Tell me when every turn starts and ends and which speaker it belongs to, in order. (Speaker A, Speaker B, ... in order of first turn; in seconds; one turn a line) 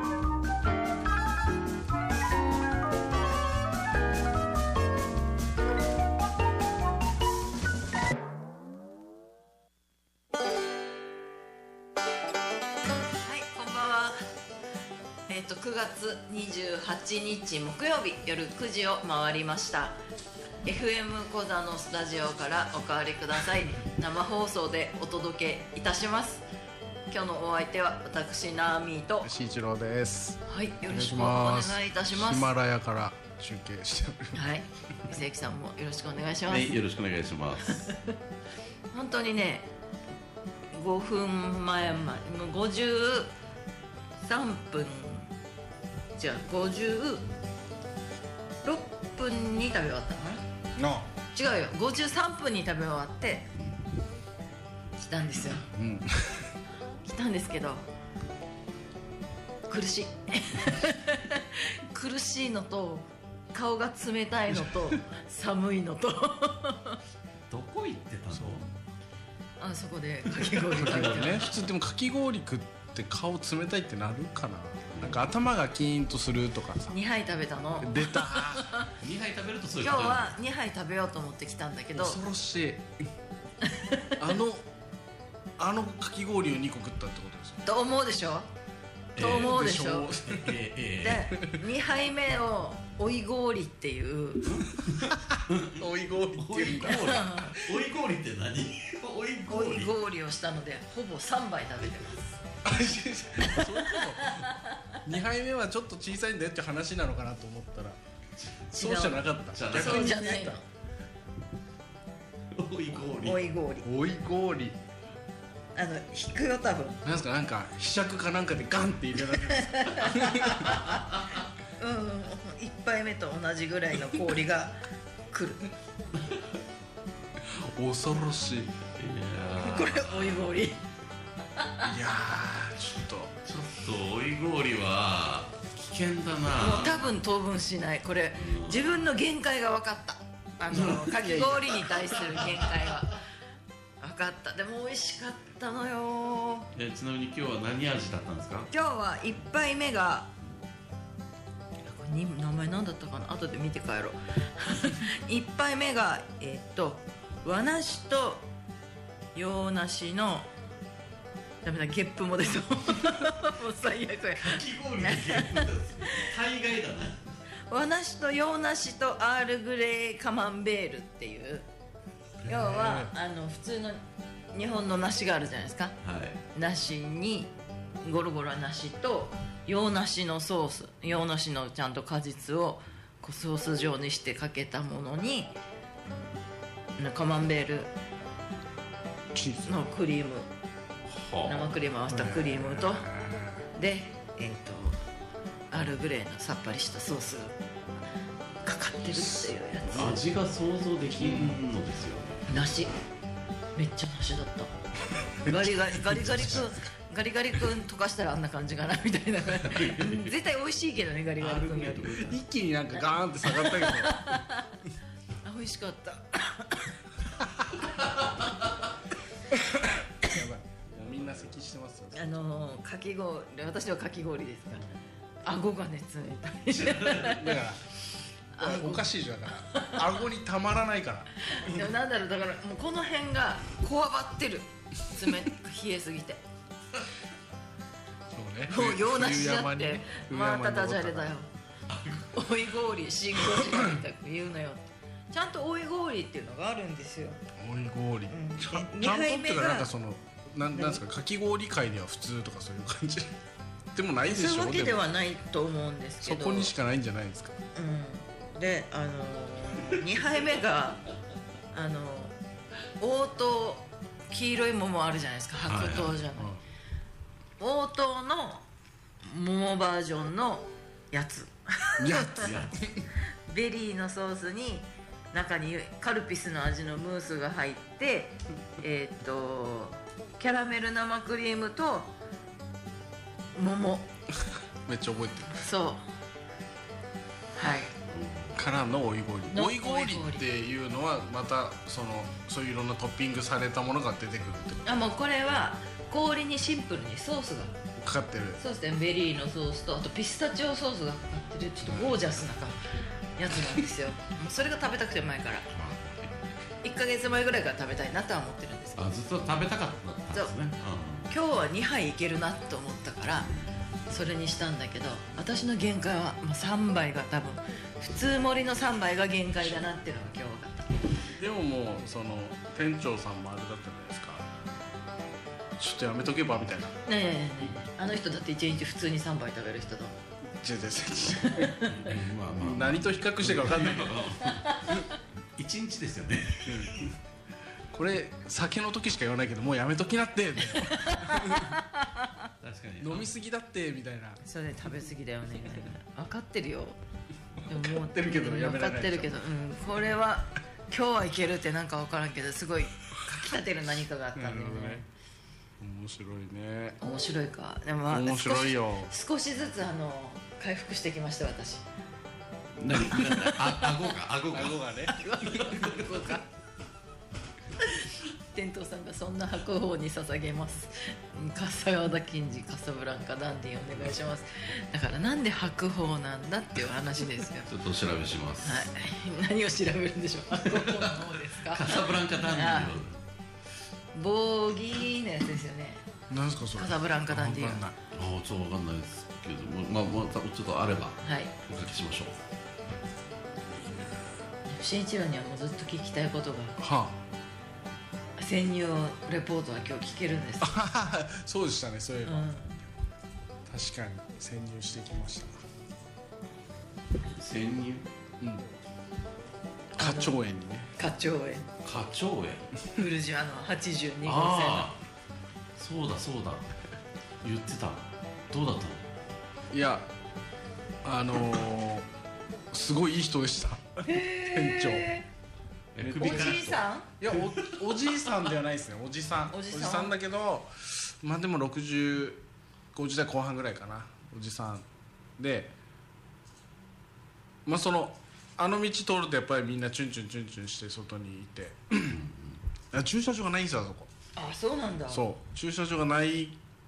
Speaker A: 13.2-14.2
Speaker A: 15.3-20.0
Speaker A: 20.6-26.4
Speaker A: 27.1-29.3
Speaker B: 29.2-34.4
Speaker A: 30.5-32.5
Speaker A: 34.3-36.7
Speaker C: 36.5-37.9
Speaker A: 37.9-38.1
Speaker A: 38.9-39.7
Speaker A: 40.7-43.3
Speaker A: 44.2-45.3
Speaker A: 46.2-47.2
Speaker A: 48.6-50.4
Speaker B: 50.8-51.1
Speaker A: 51.3-53.5
Speaker A: 55.0-55.6
Speaker B: 55.7-56.5
Speaker A: 57.0-57.9
Speaker A: 59.7-67.0
Speaker C: 67.5-68.7
Speaker B: 68.3-68.6
Speaker A: 69.6-71.5
Speaker B: 70.7-77.0
Speaker C: 71.1-71.5
Speaker A: 76.9-78.9
Speaker B: 77.8-78.7
Speaker C: 79.0-80.3
Speaker A: 79.8-82.2
Speaker B: 82.0-82.9
Speaker A: 83.6-84.2
Speaker B: 84.2-84.7
Speaker B: 85.6-87.6
Speaker A: 87.7-88.5
Speaker C: 89.2-89.6
Speaker A: 89.2-90.2
Speaker B: 89.2-90.6
Speaker C: 90.3-91.3
Speaker A: 91.0-94.6
Speaker C: 94.5-99.9
Speaker B: 95.1-97.2
Speaker A: 96.8-97.6
Speaker A: 99.5-102.4
Speaker B: 102.6-104.5
Speaker A: 103.4-105.0
Speaker B: 105.0-108.0
Speaker B: 108.7-110.6
Speaker A: 108.8-109.2
Speaker C: 109.5-110.4
Speaker A: 109.7-110.6
Speaker C: 112.5-113.4
Speaker A: 113.0-113.9
Speaker B: 113.8-114.8
Speaker A: 115.8-117.0
Speaker B: 117.0-120.8
Speaker A: 119.5-121.0
Speaker A: 121.8-124.8
Speaker A: 125.3-125.7
Speaker B: 127.5-128.8
Speaker C: 128.9-130.6
Speaker A: 129.6-130.8
Speaker A: 131.6-131.8
Speaker B: 131.8-133.4
Speaker C: 133.4-137.1
Speaker A: 136.6-143.2
Speaker C: 138.4-139.0
Speaker C: 140.7-142.7
Speaker A: 144.0-146.7
Speaker C: 146.8-148.7
Speaker A: 148.7-150.3
Speaker A: 151.9-158.5
Speaker A: 159.3-160.5
Speaker A: 161.6-166.3
Speaker C: 164.4-167.4
Speaker A: 167.7-171.7
Speaker A: 172.5-174.0
Speaker B: 172.5-173.1
Speaker A: 174.5-176.0
Speaker C: 176.0-176.4
Speaker A: 176.5-177.5
Speaker A: 178.0-185.6
Speaker A: 187.0-187.9
Speaker B: 189.3-189.8
Speaker A: 189.7-190.5
Speaker C: 191.1-191.7
Speaker A: 191.5-193.1
Speaker B: 192.1-193.7
Speaker A: 193.8-195.0
Speaker A: 195.7-197.6
Speaker A: 198.6-200.2
Speaker B: 199.1-200.2
Speaker C: 200.0-202.4
Speaker A: 201.2-201.6
Speaker A: 202.5-202.9
Speaker A: 203.8-204.7
Speaker A: 205.4-212.4
Speaker B: 205.4-206.7
Speaker C: 209.6-210.3
Speaker C: 211.4-212.3
Speaker B: 212.2-214.4
Speaker A: 213.0-214.8
Speaker A: 215.4-217.0
Speaker B: 217.4-217.8
Speaker B: 219.5-222.4
Speaker A: 222.1-224.8
Speaker A: 225.4-227.6
Speaker B: 227.2-227.9
Speaker A: 228.6-230.1
Speaker B: 228.6-231.8
Speaker A: 231.4-236.4
Speaker B: 238.3-241.3
Speaker A: 238.7-241.5
Speaker C: 241.9-242.4
Speaker A: 242.3-247.4
Speaker B: 243.5-244.0
Speaker B: 247.6-253.3
Speaker A: 248.3-249.9
Speaker A: 250.7-251.0
Speaker B: 253.9-255.0
Speaker A: 254.3-256.7
Speaker B: 256.2-257.6
Speaker A: 257.8-261.0
Speaker A: 261.7-262.4
Speaker A: 263.0-266.6
Speaker C: 265.7-266.2
Speaker B: 266.4-266.6
Speaker A: 267.6-268.6
Speaker A: 269.2-272.5
Speaker B: 272.0-273.1
Speaker C: 272.4-272.9
Speaker A: 273.4-282.1
Speaker A: 283.6-284.1
Speaker B: 284.9-285.7
Speaker A: 285.6-286.0
Speaker A: 287.6-287.9
Speaker C: 288.1-288.6
Speaker B: 288.6-294.9
Speaker A: 289.5-290.5
Speaker A: 294.9-297.8
Speaker B: 298.0-298.6
Speaker A: 298.6-302.8
Speaker B: 301.9-302.2
Speaker A: 303.4-305.7
Speaker C: 305.7-306.3
Speaker A: 306.8-309.1
Speaker C: 309.0-311.3
Speaker A: 311.3-313.5
Speaker A: 314.1-321.0
Speaker B: 321.4-324.5
Speaker B: 325.8-327.0
Speaker A: 327.1-330.2
Speaker B: 330.5-334.2
Speaker A: 331.4-331.9
Speaker C: 331.9-337.1
Speaker A: 334.4-335.0
Speaker B: 336.7-337.1
Speaker B: 337.9-341.8
Speaker A: 340.7-342.5
Speaker C: 342.6-343.3
Speaker B: 343.0-344.4
Speaker A: 344.4-347.0
Speaker A: 347.6-355.1
Speaker B: 347.7-349.4
Speaker B: 354.4-355.1
Speaker B: 355.8-357.0
Speaker A: 357.0-361.9
Speaker B: 358.1-359.1
Speaker C: 362.8-364.9
Speaker A: 362.9-364.1
Speaker B: 364.5-365.2
Speaker A: 365.1-366.5
Speaker C: 365.4-366.3
Speaker A: 367.8-377.7
Speaker C: 377.7-378.9
Speaker A: 378.6-382.9
Speaker C: 380.8-383.2
Speaker A: 384.1-386.0
Speaker B: 386.3-388.0
Speaker A: 386.8-387.8
Speaker C: 388.1-392.4
Speaker A: 391.2-391.5
Speaker A: 394.7-396.8
Speaker B: 396.8-397.2
Speaker A: 398.4-400.8
Speaker B: 400.6-402.5
Speaker A: 402.2-402.8
Speaker B: 403.7-405.6
Speaker C: 407.3-408.1
Speaker B: 410.0-410.9
Speaker A: 410.0-410.4
Speaker A: 411.0-411.7
Speaker C: 411.8-412.7
Speaker A: 412.9-414.9
Speaker C: 414.2-415.0
Speaker C: 415.8-416.7
Speaker C: 417.4-419.1
Speaker B: 419.7-420.1
Speaker B: 421.0-422.1
Speaker B: 422.7-425.1
Speaker A: 424.1-425.3
Speaker C: 425.9-426.8
Speaker B: 426.0-432.4
Speaker A: 426.2-427.1
Speaker C: 427.3-427.8
Speaker A: 429.5-430.1
Speaker B: 432.9-434.9
Speaker B: 435.4-435.7
Speaker B: 437.7-442.2
Speaker C: 442.1-442.6
Speaker B: 442.9-444.1
Speaker A: 444.4-445.2
Speaker B: 445.1-446.6